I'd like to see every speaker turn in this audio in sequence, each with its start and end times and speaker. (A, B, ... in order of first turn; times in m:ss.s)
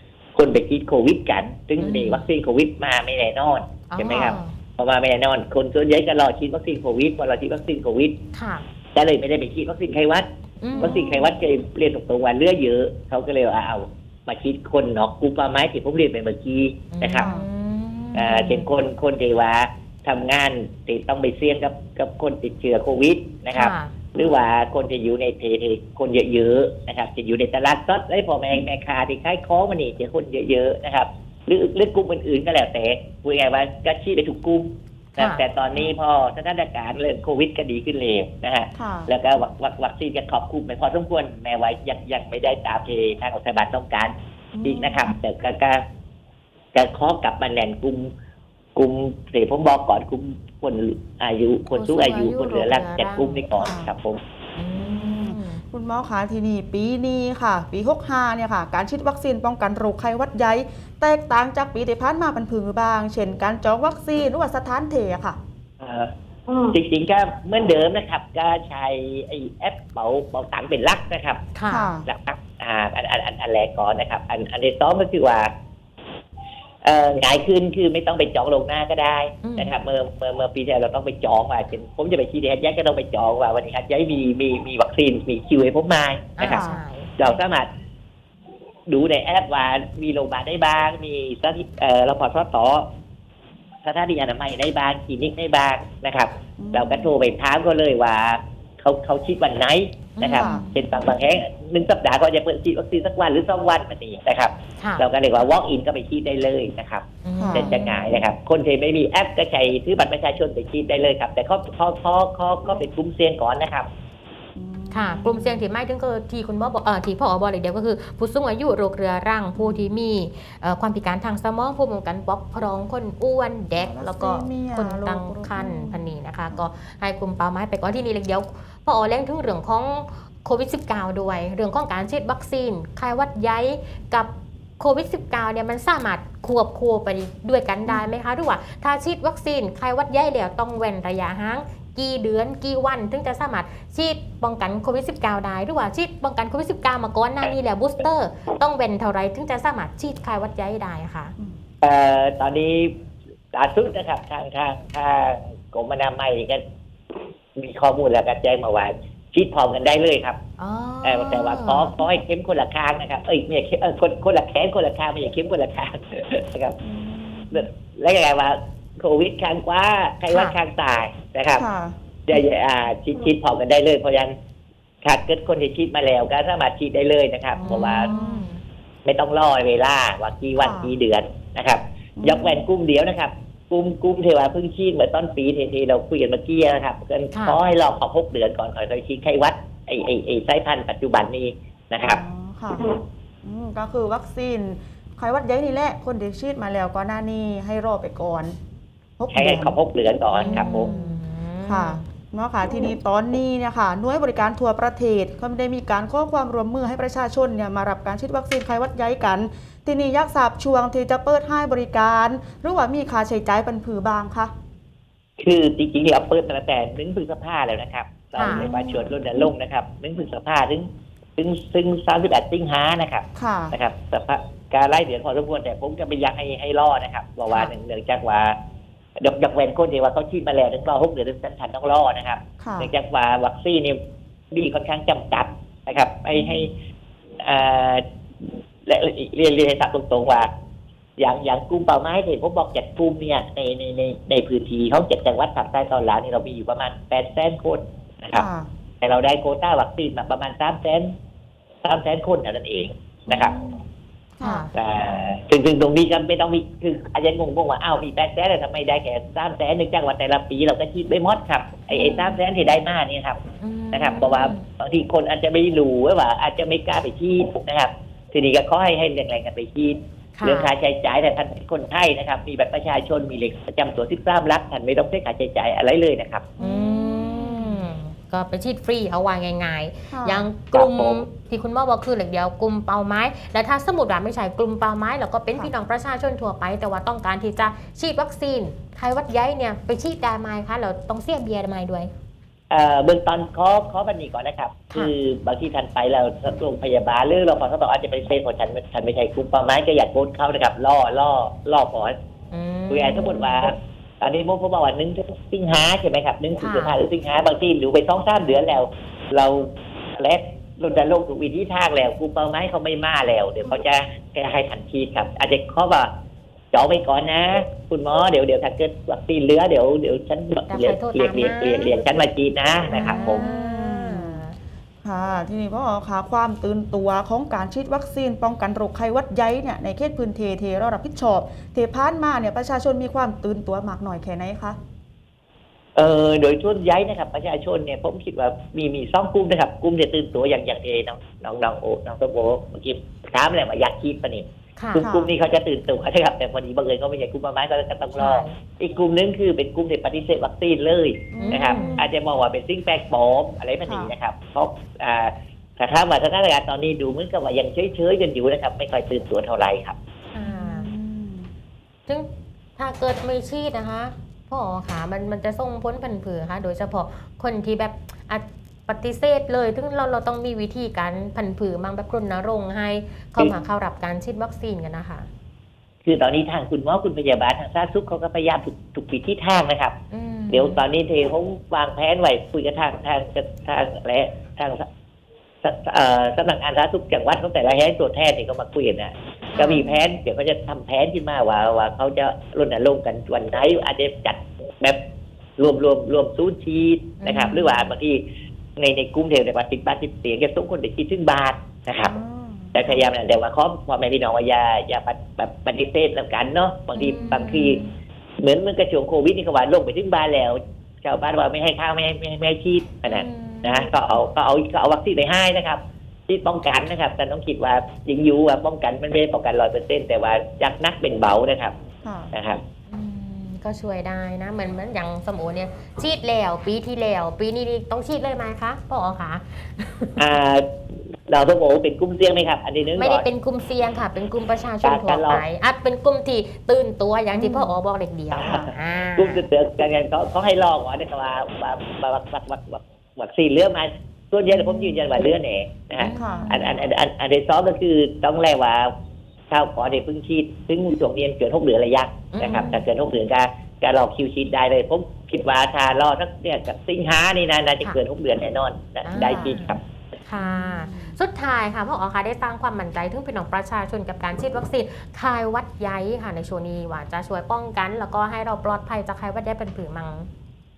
0:00.4-0:08.2 A
0:01.8-0:02.3 B
0:03.9-0:04.5 B
0:08.3-0:08.6 B
0:09.0-0:17.3 A
0:10.6-0:11.0 B
0:10.7-0:11.3 C
0:16.9-0:18.7 B
0:17.2-0:17.5 C
0:18.1-0:45.8 A
0:23.5-0:23.9 B
0:35.2-0:35.4 B
0:38.8-0:39.1 C
0:44.5-0:45.1 C
0:46.7-0:48.1 A
0:48.8-0:54.2 A
0:51.7-0:53.4 B
0:53.5-0:53.9 C
0:54.6-0:55.6 B
0:54.8-1:05.4 C
1:05.8-1:11.4 A
1:11.6-1:12.0 B
1:11.7-1:12.1 C
1:12.0-1:15.5 A
1:16.8-1:26.6 A
1:19.4-1:19.8 B
1:26.4-1:27.4 B
1:26.4-1:26.8 C
1:27.2-1:27.7 A
1:28.9-1:32.9 A
1:33.8-1:53.9 A
1:36.6-1:37.1 C
1:40.2-1:40.7 B
1:40.4-1:40.7 C
1:44.8-1:45.1 B
1:47.2-1:48.1 B
1:47.4-1:47.8 C
1:54.6-1:55.6 C
1:54.9-2:31.3 B
1:59.6-1:59.9 C
2:03.8-2:06.6 C
2:31.8-2:32.9 A
2:33.5-2:36.6 A
2:37.6-2:40.4 A
2:40.6-2:41.9 B
2:41.0-2:46.8 A
2:46.8-2:47.7 C
2:47.5-2:51.6 A
2:50.3-2:50.6 B
2:51.6-2:52.0 C
2:52.3-2:54.4 A
2:55.0-2:58.1 A
2:57.6-2:58.5 C
2:57.7-2:58.6 B
2:59.0-3:12.2 A
3:00.6-3:00.9 C
3:02.2-3:02.7 C
3:07.3-3:07.6 B
3:12.0-3:12.9 C
3:13.4-3:18.6 C
3:19.2-3:19.8 C
3:19.3-3:20.9 A
3:20.3-3:22.0 B
3:20.4-3:34.5 C
3:35.4-3:48.6 A
3:38.4-3:38.7 B
3:38.4-3:39.2 C
3:43.4-3:43.8 C
3:49.2-3:54.0 A
3:52.6-3:52.9 C
3:54.5-3:56.7 A
3:56.3-3:56.6 C
3:57.4-4:00.5 A
4:01.2-4:08.5 A
4:08.3-4:08.7 C
4:09.0-4:11.1 A
4:11.8-4:13.5 A
4:13.3-4:13.8 C
4:14.4-4:14.7 C
4:14.4-4:14.7 B
4:14.8-4:23.4 A
4:21.9-4:22.4 B
4:23.6-4:24.6 B
4:23.9-4:36.5 A
4:30.4-4:30.7 B
4:36.6-4:52.1 B
4:36.6-4:37.9 C
4:40.1-4:40.5 C
4:40.7-4:41.2 A
4:52.7-5:02.2 A
5:02.5-5:03.6 B
5:02.9-5:16.1 A
5:06.6-5:07.0 B
5:16.7-5:23.4 A
5:20.7-5:22.0 B
5:22.9-5:24.6 B
5:22.9-5:24.4 C
5:25.0-5:34.8 C
5:36.0-6:00.0 A
5:44.8-5:45.1 B
5:45.0-5:45.3 C
5:48.2-5:48.6 B
5:51.3-5:52.1 C
5:51.4-5:52.0 B
5:53.9-5:54.1 C
6:00.3-6:00.9 B
6:00.4-6:01.5 C
6:02.1-6:15.3 B
6:16.0-6:20.0 A
6:20.1-6:20.8 B
6:20.5-6:24.8 A
6:25.6-6:35.0 A
6:29.5-6:30.0 B
6:35.6-6:38.2 A
6:37.2-6:37.9 B
6:38.8-6:42.1 A
6:42.0-6:43.0 C
6:42.7-6:47.8 A
6:47.0-6:47.9 B
6:48.4-7:01.8 A
6:53.1-6:54.0 B
7:02.0-7:02.3 C
7:02.3-7:02.6 A
7:02.9-7:10.3 B
7:10.2-7:10.6 A
7:11.3-7:13.2 A
7:13.0-7:19.4 B
7:14.8-7:15.4 A
7:17.3-7:17.8 C
7:18.4-7:18.7 A
7:18.4-7:18.7 C
7:19.2-7:28.9 A
7:24.6-7:24.9 C
7:26.0-7:26.8 B
7:26.2-7:26.7 C
7:29.5-7:39.8 A
7:32.3-7:32.8 B
7:39.0-7:50.3 B
7:39.2-7:39.6 C
7:40.4-7:41.2 C